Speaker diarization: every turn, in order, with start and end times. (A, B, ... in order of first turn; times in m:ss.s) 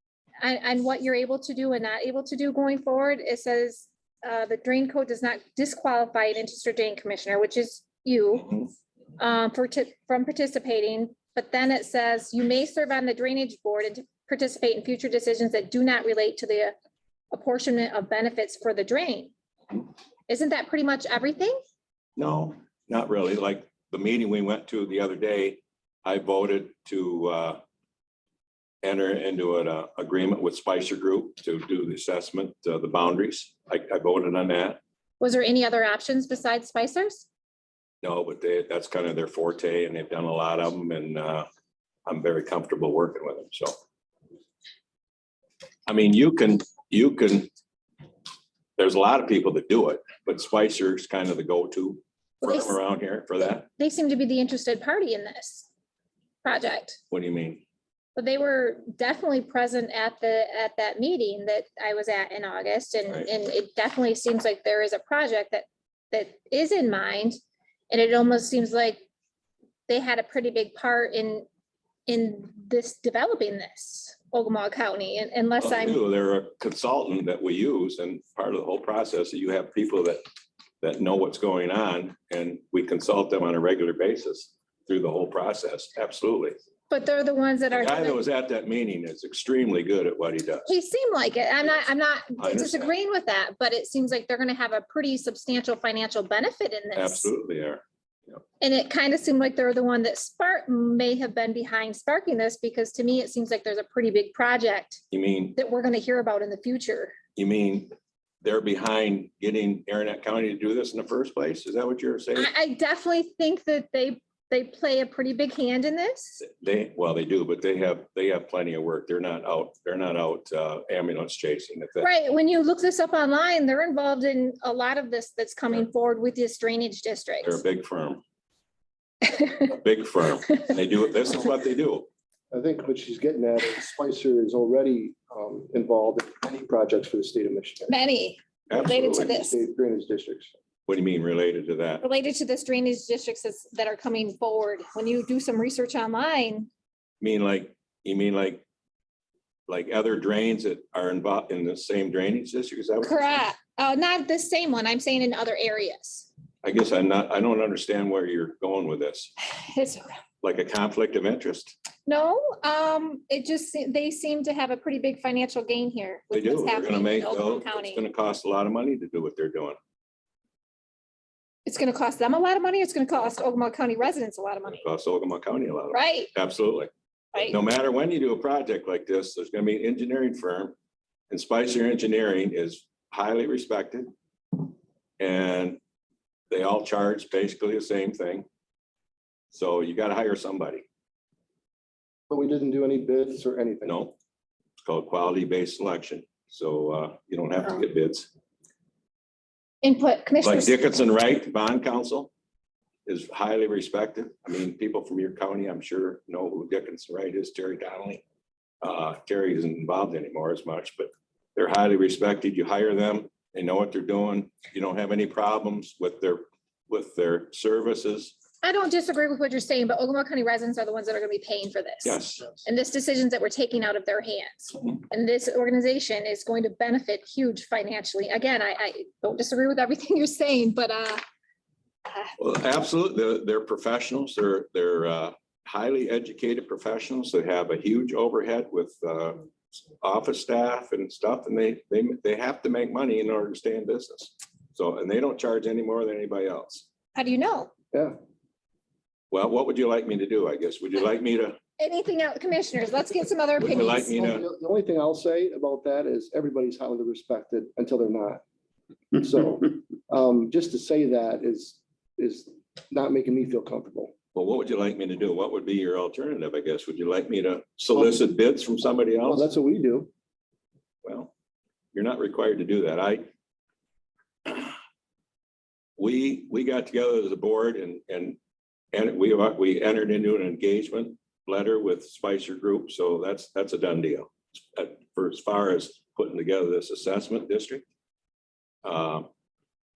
0:00.4-0:08.7 A
0:09.2-0:16.7 A
0:17.3-0:19.3 A
0:20.3-0:21.6 A
0:22.2-0:27.6 B
0:28.8-0:34.8 B
0:35.2-0:37.3 A
0:38.0-0:41.5 B
0:42.0-0:43.7 B
0:45.9-0:47.5 B
0:48.8-0:53.7 B
0:52.4-0:52.8 A
0:53.8-0:55.7 A
0:56.4-0:57.0 A
0:57.1-0:57.6 B
0:58.2-1:09.0 A
1:09.9-1:11.4 A
1:12.1-1:16.0 A
1:15.6-1:20.2 B
1:20.8-1:26.6 B
1:26.9-1:28.2 A
1:27.7-1:30.7 B
1:30.7-1:37.3 A
1:32.4-1:32.9 B
1:37.0-1:38.4 B
1:38.6-1:45.0 A
1:45.1-1:45.6 B
1:45.6-1:47.2 A
1:47.4-1:52.5 B
1:52.3-1:56.4 A
1:56.4-2:02.1 B
2:02.0-2:07.6 A
2:07.4-2:08.2 B
2:09.6-2:12.1 B
2:12.5-2:17.9 C
2:17.9-2:19.6 A
2:18.7-2:19.3 B
2:19.2-2:20.5 C
2:20.9-2:22.0 B
2:22.0-2:26.7 A
2:27.2-2:28.6 B
2:29.7-2:33.4 B
2:33.0-2:36.3 A
2:36.6-2:39.3 B
2:39.5-2:40.1 A
2:40.4-2:41.7 B
2:42.1-2:48.0 A
2:46.3-2:49.8 B
2:51.7-2:54.8 A
2:54.7-3:00.7 B
2:55.9-2:56.3 A
3:01.3-3:04.6 B
3:05.2-3:05.8 B
3:06.5-3:08.5 B
3:09.5-3:10.8 B
3:12.3-3:14.0 C
3:13.8-3:14.2 B
3:14.8-3:18.3 B
3:19.8-3:20.8 A
3:20.4-3:22.3 B
3:23.1-3:28.2 B
3:28.8-3:38.4 B
3:38.6-3:51.2 A
3:42.0-3:42.5 B
3:52.4-4:06.8 B
4:07.2-4:07.7 A
4:09.3-4:11.6 B
4:11.8-4:14.2 A
4:13.6-4:14.4 B
4:14.1-4:18.4 C
4:19.1-4:24.1 C
4:24.3-4:29.5 B
4:29.2-4:30.1 C
4:31.0-4:31.3 B
4:31.9-4:33.2 B
4:34.4-4:34.7 B
4:36.0-4:38.4 B
4:38.9-4:47.8 B
4:48.8-4:49.3 B